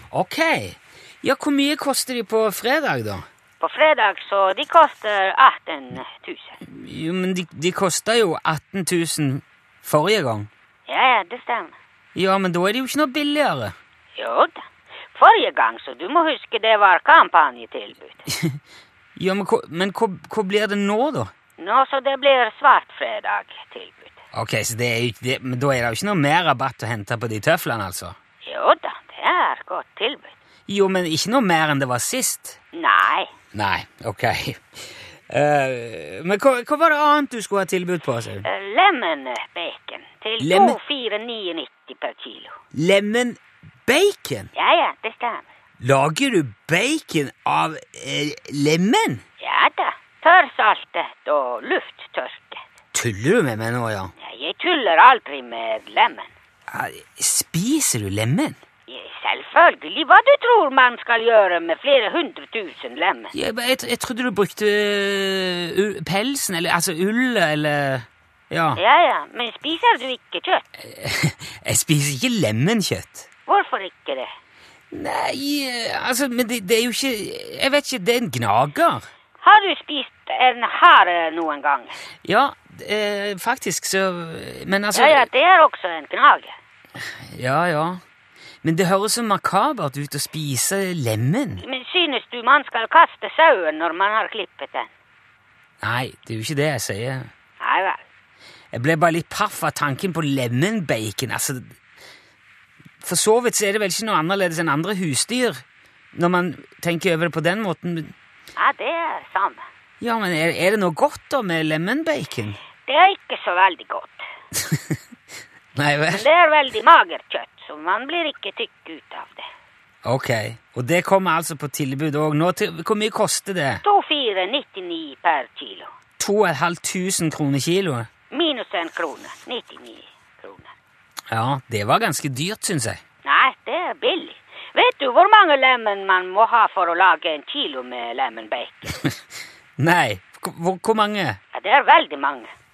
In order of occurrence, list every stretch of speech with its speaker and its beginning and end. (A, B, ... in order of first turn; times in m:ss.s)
0:00.1-0:03.2 A
0:03.6-0:06.6 B
0:06.6-0:10.5 A
0:10.9-0:11.7 B
0:12.1-0:13.7 A
0:14.2-0:18.2 B
0:18.3-0:18.6 A
0:19.2-0:21.3 A
0:21.6-0:24.2 B
0:24.3-0:28.2 A
0:28.4-0:30.3 B
0:30.7-0:32.6 A
0:32.7-0:33.3 B
0:33.5-0:38.4 A
0:38.4-0:42.6 B
0:40.4-0:40.8 A
0:42.7-0:44.5 A
0:44.5-0:45.4 B
0:45.8-0:49.2 A
0:49.4-0:52.6 B
0:52.9-0:54.1 A
0:54.2-0:56.3 B
0:56.7-0:58.6 A
0:58.9-1:03.3 B
1:03.3-1:08.8 A
1:08.8-1:10.6 B
1:10.8-1:13.2 A
1:13.5-1:14.3 B
1:14.9-1:19.1 A
1:19.4-1:22.0 B
1:22.2-1:25.3 A
1:24.9-1:26.6 B
1:27.3-1:28.0 A
1:28.6-1:31.6 A
1:31.6-1:34.9 B
1:35.8-1:37.3 A
1:37.6-1:38.0 B
1:38.7-1:41.8 A
1:43.0-1:45.6 A
1:46.1-1:48.1 A
1:48.6-1:49.6 B
1:50.0-1:52.6 A
1:52.8-1:54.2 B
1:54.6-1:55.0 A
1:55.7-1:56.2 A
1:56.1-1:59.5 B
2:00.0-2:03.8 A
2:03.8-2:05.9 B
2:06.2-2:08.1 A
2:08.3-2:10.7 B
2:11.3-2:13.0 A
2:13.2-2:18.9 B
2:19.8-2:21.4 A
2:21.5-2:22.5 B